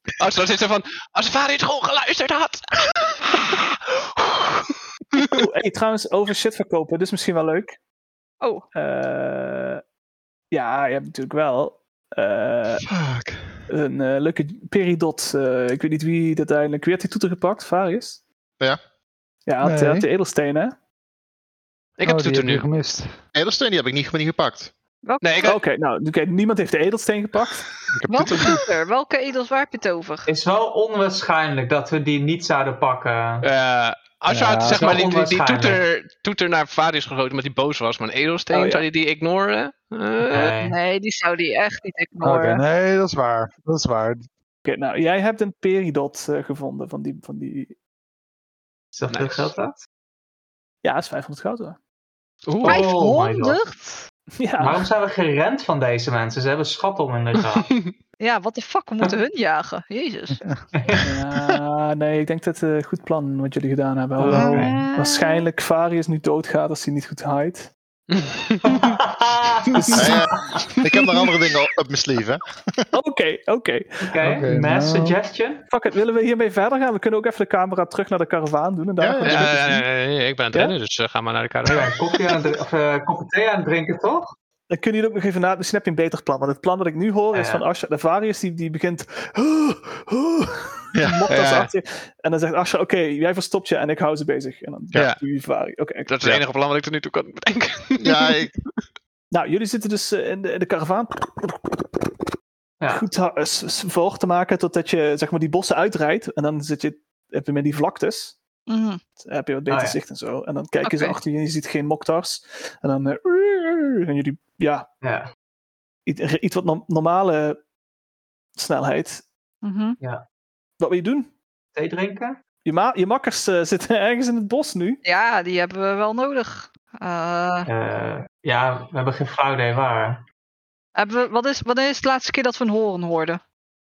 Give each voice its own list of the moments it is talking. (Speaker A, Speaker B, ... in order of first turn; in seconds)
Speaker A: 0.2-5.4, 22.0-22.7, 25.2-25.6, 33.4-40.5, 49.1-49.5, 52.5-52.9, 57.7-57.9, 68.1-68.9, 79.3-81.9, 91.3-91.6, 94.9-95.2, 96.1-98.4
Speaker B: 5.3-7.8, 8.7-9.8, 10.5-12.9, 13.7-18.2, 19.5-20.8, 25.4-27.7, 38.5-38.9, 44.6-47.8, 50.8-51.8, 54.4-54.9, 61.0-67.7, 69.7-70.2, 72.9-74.2, 75.7-79.9, 84.7-96.1, 99.3-101.9, 102.9-108.4, 109.2-114.9, 116.1-117.6, 118.6-119.3, 120.8-121.3, 122.7-125.0
Speaker C: 12.8-13.6, 23.4-24.7, 27.9-28.6, 70.0-72.8, 79.0-79.5, 91.0-91.2, 98.0-98.5
Speaker D: 19.6-20.1, 22.0-23.2, 34.3-35.1, 42.2-44.3, 74.2-75.2, 91.4-91.7
Speaker E: 25.0-25.5, 28.1-30.3, 40.6-42.6, 52.6-54.1, 58.2-60.4, 64.3-65.5, 108.7-109.0, 110.8-111.2, 119.6-120.0, 125.0-127.7, 131.0-133.4
Speaker F: 30.3-33.5, 34.7-35.8, 40.2-40.8, 48.9-49.9, 52.6-53.6, 54.6-57.7, 60.7-61.1, 64.2-64.8, 68.7-70.1, 74.0-75.6, 81.7-84.3, 87.3-87.6, 109.7-110.0, 115.0-115.3, 121.7-122.4, 127.7-130.2